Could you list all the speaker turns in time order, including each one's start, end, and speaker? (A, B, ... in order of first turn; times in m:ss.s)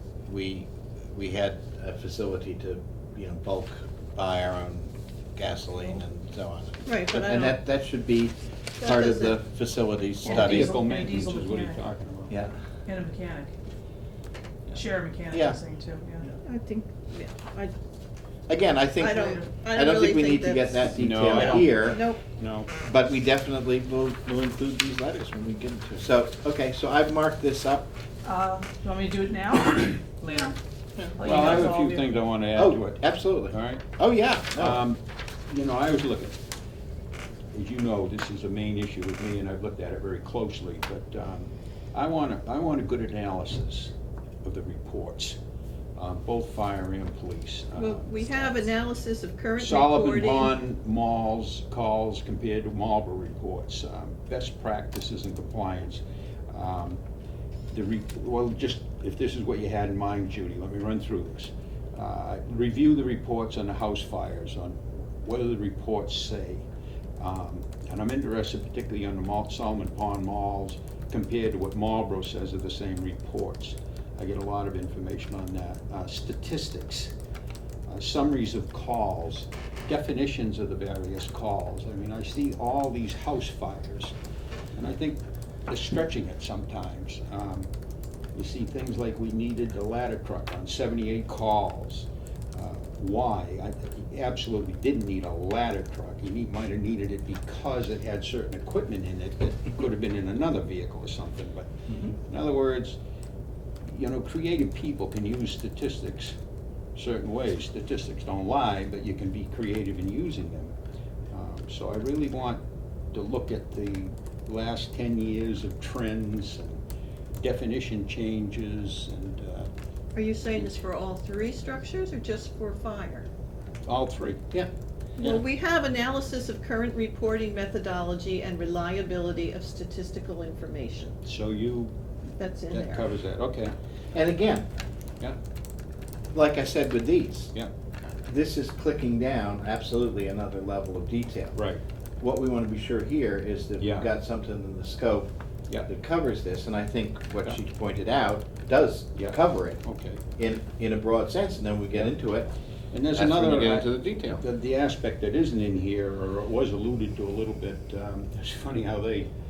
0:00.3-0:10.8 A
0:06.8-0:07.6 B
0:08.8-0:09.4 B
0:10.2-0:11.8 C
0:10.3-0:12.3 D
0:12.3-0:12.5 A
0:12.9-0:13.5 C
0:14.7-0:16.3 C
0:15.3-0:15.6 A
0:16.4-0:17.7 B
0:18.5-0:22.0 A
0:19.0-0:22.2 B
0:19.2-0:19.5 C
0:20.9-0:22.7 D
0:22.8-0:27.9 A
0:28.2-0:30.6 C
0:31.1-0:32.1 C
0:31.2-0:33.8 D
0:31.3-0:31.6 A
0:32.6-0:34.8 A
0:34.5-0:36.4 D
0:37.5-0:45.4 D
0:46.0-0:48.7 D
0:47.8-0:50.6 B
0:49.6-0:57.0 D
0:57.7-1:06.7 D
1:07.2-1:17.1 D
1:17.9-1:24.1 D
1:24.8-1:27.7 D
1:28.4-1:43.0 D
1:41.9-1:42.2 A
1:43.9-1:46.4 D
1:47.0-1:50.7 D
1:51.3-1:56.8 D
1:57.4-1:59.7 D
2:00.2-2:03.3 B
2:03.8-2:04.4 D
2:05.2-2:11.2 B
2:11.2-2:11.9 D
2:12.4-2:13.1 B
2:12.7-2:13.8 D
2:14.1-2:14.7 A
2:16.3-2:17.5 A
2:18.3-2:21.6 A
2:21.6-2:21.8 D
2:22.2-2:25.3 A
2:23.8-2:24.1 D
2:25.8-2:29.8 A
2:29.2-2:30.2 D
2:30.4-2:32.5 A
2:32.9-2:39.3 D
2:33.2-2:34.4 A